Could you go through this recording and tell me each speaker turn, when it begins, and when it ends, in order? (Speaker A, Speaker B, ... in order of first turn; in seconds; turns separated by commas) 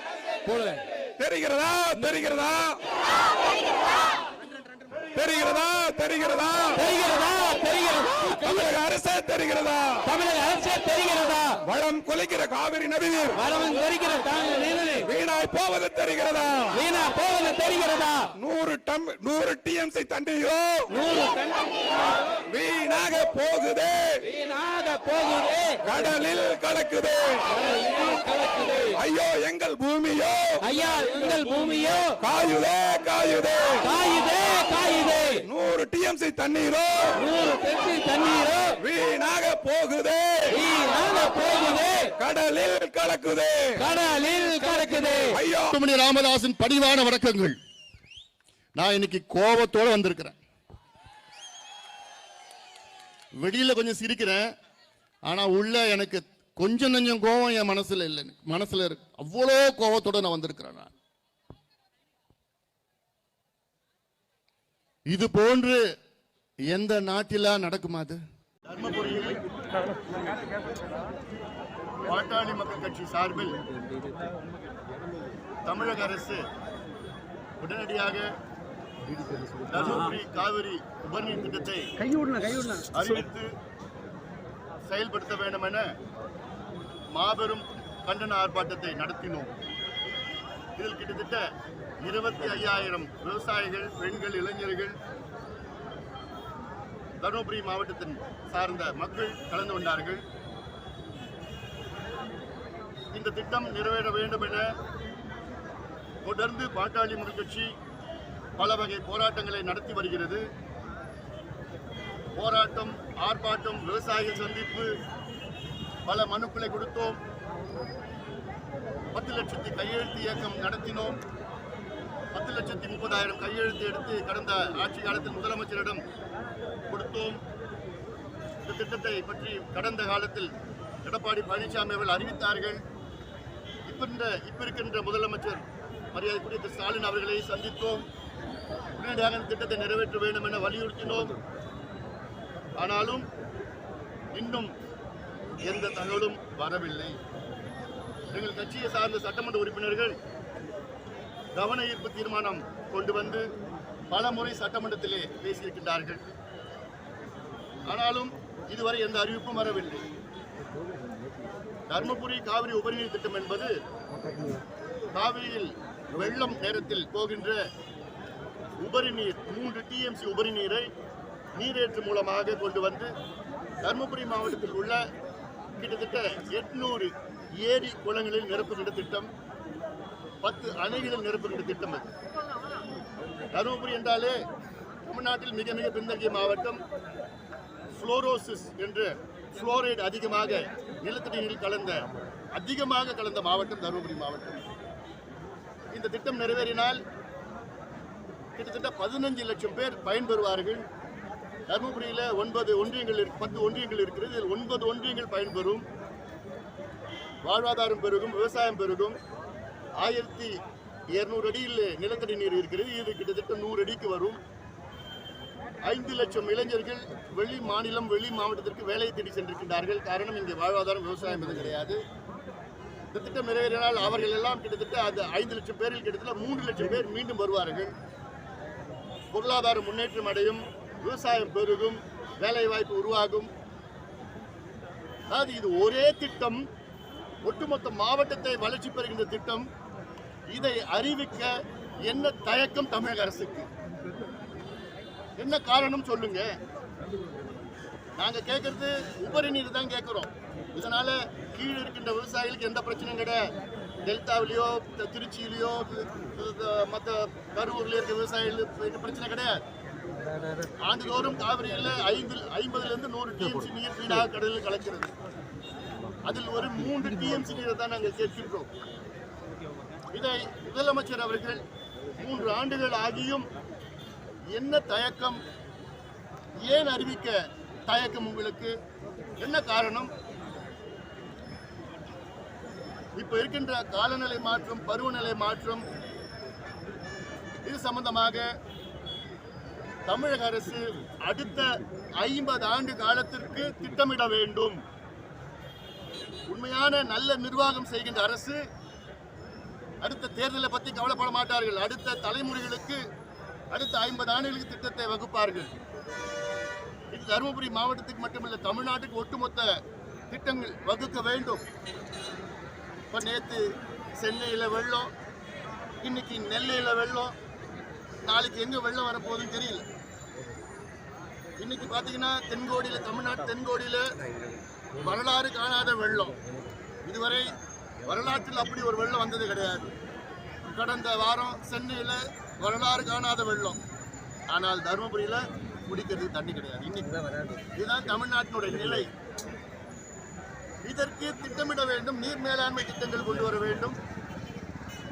Speaker A: 0.5-0.8, Speaker B: 1.2-2.8, Speaker B: 5.1-6.9, Speaker A: 6.8-8.7, Speaker B: 8.1-10.1, Speaker A: 10.1-11.6, Speaker B: 11.6-13.5, Speaker A: 13.4-15.1, Speaker B: 15.0-16.8, Speaker A: 16.7-18.3, Speaker B: 18.4-21.0, Speaker A: 20.9-21.8, Speaker B: 22.5-24.3, Speaker A: 24.3-25.8, Speaker B: 25.8-27.6, Speaker A: 28.0-28.9, Speaker B: 28.9-30.6, Speaker A: 30.6-32.2, Speaker B: 32.2-33.9, Speaker A: 33.8-35.4, Speaker B: 35.4-37.3, Speaker A: 37.2-38.8, Speaker B: 38.8-40.6, Speaker A: 40.5-42.1, Speaker B: 42.1-43.8, Speaker A: 43.8-45.4, Speaker B: 45.3-45.8, Speaker C: 45.7-47.6, Speaker C: 48.8-50.4, Speaker C: 53.4-54.4, Speaker C: 55.3-60.9, Speaker C: 65.1-65.8, Speaker C: 66.7-69.4, Speaker C: 72.0-73.6, Speaker C: 75.7-76.4, Speaker C: 77.6-78.3, Speaker C: 79.7-82.0, Speaker A: 82.2-82.8, Speaker C: 82.9-83.5, Speaker C: 84.9-85.9, Speaker C: 87.1-89.5, Speaker C: 90.8-91.5, Speaker C: 92.0-95.0, Speaker C: 97.2-100.2, Speaker C: 103.1-104.7, Speaker C: 106.2-107.7, Speaker C: 108.6-110.5, Speaker C: 112.4-114.9, Speaker C: 116.1-117.2, Speaker C: 119.1-121.2, Speaker C: 122.3-126.0, Speaker C: 126.9-127.4, Speaker C: 128.7-130.5, Speaker C: 131.1-132.8, Speaker C: 133.9-138.1, Speaker C: 139.0-141.4, Speaker C: 142.8-143.3, Speaker C: 144.3-144.7, Speaker C: 145.7-147.2, Speaker C: 148.3-150.1, Speaker C: 151.6-153.5, Speaker C: 154.1-156.2, Speaker C: 157.8-160.0, Speaker C: 161.9-163.7, Speaker C: 165.2-167.6, Speaker C: 168.8-170.9, Speaker C: 171.6-173.1, Speaker C: 173.8-175.0, Speaker C: 175.8-179.3, Speaker C: 180.4-182.1, Speaker C: 183.6-184.4, Speaker C: 185.1-186.8, Speaker C: 187.9-194.6, Speaker C: 195.9-197.0, Speaker C: 198.6-200.8, Speaker C: 201.7-205.8, Speaker C: 207.4-209.2, Speaker C: 210.0-210.5, Speaker C: 211.2-214.4, Speaker C: 215.8-222.0, Speaker C: 223.1-227.9, Speaker C: 229.3-233.5, Speaker C: 235.3-236.6, Speaker C: 237.5-239.7, Speaker C: 240.5-241.5, Speaker C: 242.1-243.7, Speaker C: 245.4-246.5, Speaker C: 248.2-253.5, Speaker C: 254.1-259.6, Speaker C: 260.8-265.1, Speaker C: 266.3-268.7, Speaker C: 270.1-271.6, Speaker C: 272.1-273.5, Speaker C: 274.6-275.4, Speaker C: 276.6-277.4, Speaker C: 277.9-278.7, Speaker C: 279.4-280.1, Speaker C: 283.2-285.8, Speaker C: 287.7-288.5, Speaker C: 290.1-291.7, Speaker C: 292.2-294.8, Speaker C: 296.5-298.6, Speaker C: 300.0-303.0, Speaker C: 303.7-305.7, Speaker C: 307.1-309.7, Speaker C: 310.3-311.6, Speaker C: 313.1-313.6, Speaker C: 314.2-315.1, Speaker C: 316.0-317.4, Speaker C: 318.3-319.9, Speaker C: 321.6-324.1, Speaker C: 325.0-326.4, Speaker C: 327.1-329.9, Speaker C: 330.7-333.8, Speaker C: 334.5-337.2, Speaker C: 337.8-339.1, Speaker C: 340.9-344.0